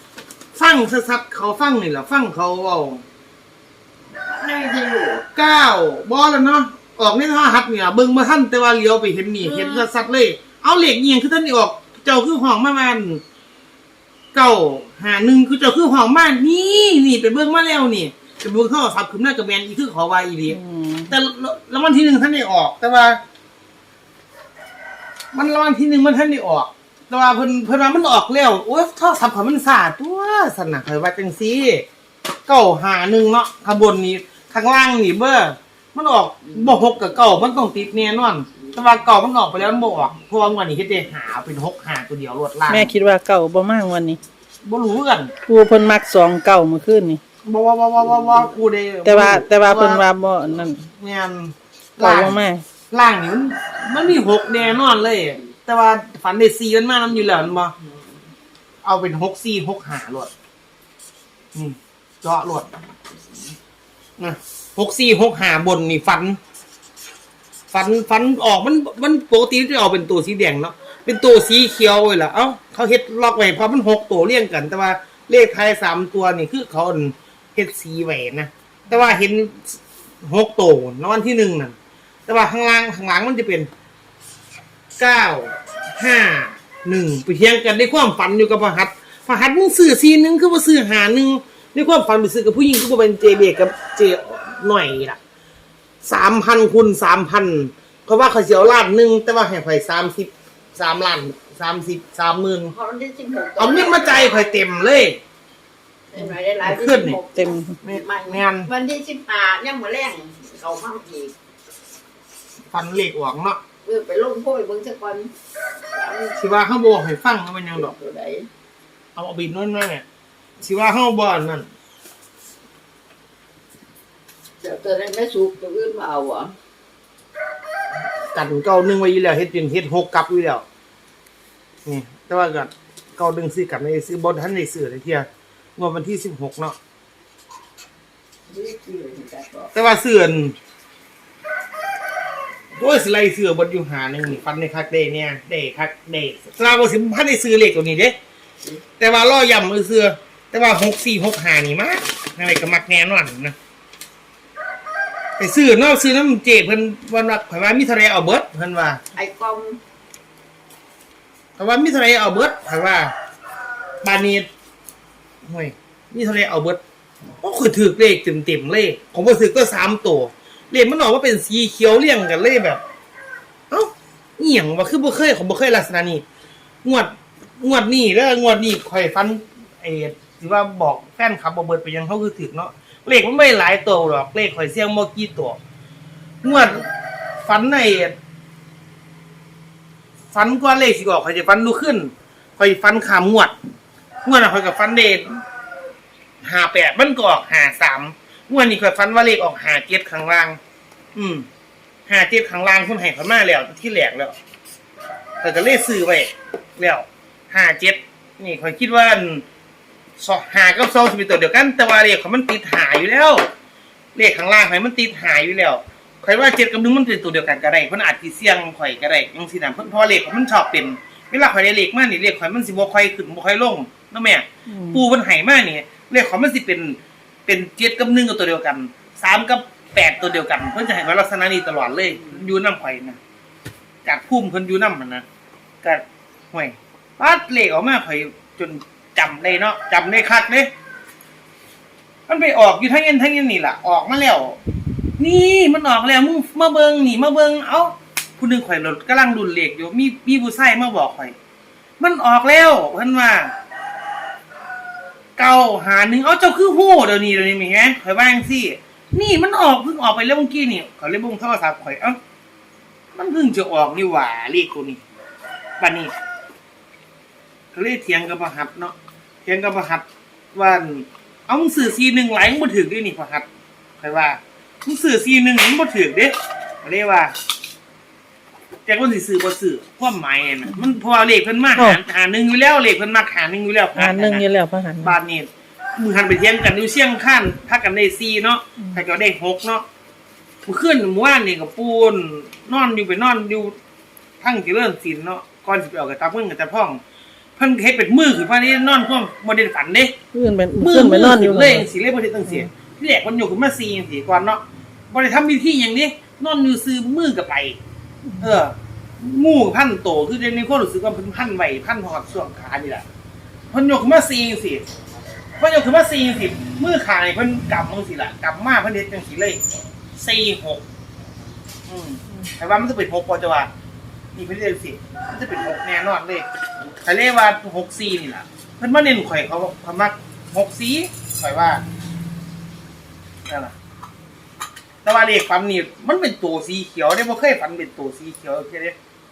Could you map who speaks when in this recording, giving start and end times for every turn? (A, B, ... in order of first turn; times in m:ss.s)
0:00.6-0:03.0 A
0:04.2-0:05.2 B
0:05.3-0:13.2 A
0:09.4-0:09.9 B
0:14.3-0:23.2 A
0:20.5-0:21.1 C
0:25.3-0:31.9 A
0:32.5-0:42.9 A
0:42.7-0:44.2 C
0:44.6-0:45.3 A
0:45.5-0:47.2 C
0:47.4-0:50.1 A
0:49.1-0:50.8 C
0:51.0-0:57.7 A
0:52.0-0:52.6 C
0:58.8-1:00.3 A
1:01.5-1:02.7 A
1:04.2-1:06.4 A
1:07.7-1:21.8 A
1:22.3-1:23.7 A
1:25.0-1:35.2 A
1:36.0-1:42.8 A
1:42.7-1:44.6 B
1:43.6-1:45.2 A
1:46.1-1:51.3 B
1:46.2-1:47.2 A
1:47.4-1:47.8 C
1:47.8-1:48.7 A
1:52.7-1:53.6 A
1:53.8-1:55.3 B
1:55.9-1:56.4 B
1:56.4-1:58.0 A
1:57.8-1:58.5 B
1:59.2-2:00.0 A
2:00.6-2:01.7 A
2:04.6-2:06.6 B
2:08.3-2:10.6 A
2:11.8-2:16.8 A
2:18.5-2:19.7 B
2:19.7-2:20.6 A
2:22.7-2:28.2 A
2:29.0-2:33.6 A
2:35.4-2:39.0 A
2:39.2-2:39.8 B
2:41.6-2:43.1 A
2:44.0-2:44.5 A
2:45.5-2:46.8 A
2:47.4-2:52.8 A
2:53.7-2:56.2 A
2:56.8-3:05.6 A
3:06.4-3:06.9 A
3:07.4-3:08.2 A
3:10.3-3:13.5 A
3:14.2-3:15.4 A
3:16.4-3:20.6 A
3:21.2-3:21.5 A
3:22.1-3:24.4 A
3:25.4-3:29.4 A
3:30.2-3:33.5 A
3:34.2-3:53.2 A
3:44.7-3:45.0 C
3:54.0-3:55.2 A
3:55.8-4:00.7 A
4:02.3-4:04.6 A
4:05.2-4:11.3 A
4:12.0-4:13.5 A
4:15.4-4:22.2 A
4:23.2-4:25.0 A
4:25.8-4:26.1 A
4:27.7-4:33.5 A
4:34.0-4:37.3 A
4:38.9-4:44.4 A
4:44.0-4:45.2 C
4:45.0-4:49.9 A
4:50.6-4:53.8 A
4:54.4-4:57.0 A
4:57.6-5:00.2 A
5:00.3-5:01.9 C
5:00.8-5:07.8 A
5:08.3-5:08.6 C
5:08.4-5:13.0 A
5:13.7-5:14.8 A
5:15.6-5:19.6 A
5:20.2-5:20.8 A
5:21.9-5:23.7 A
5:24.4-5:26.5 A
5:27.0-5:31.8 A
5:33.5-5:33.7 A
5:35.0-5:39.0 A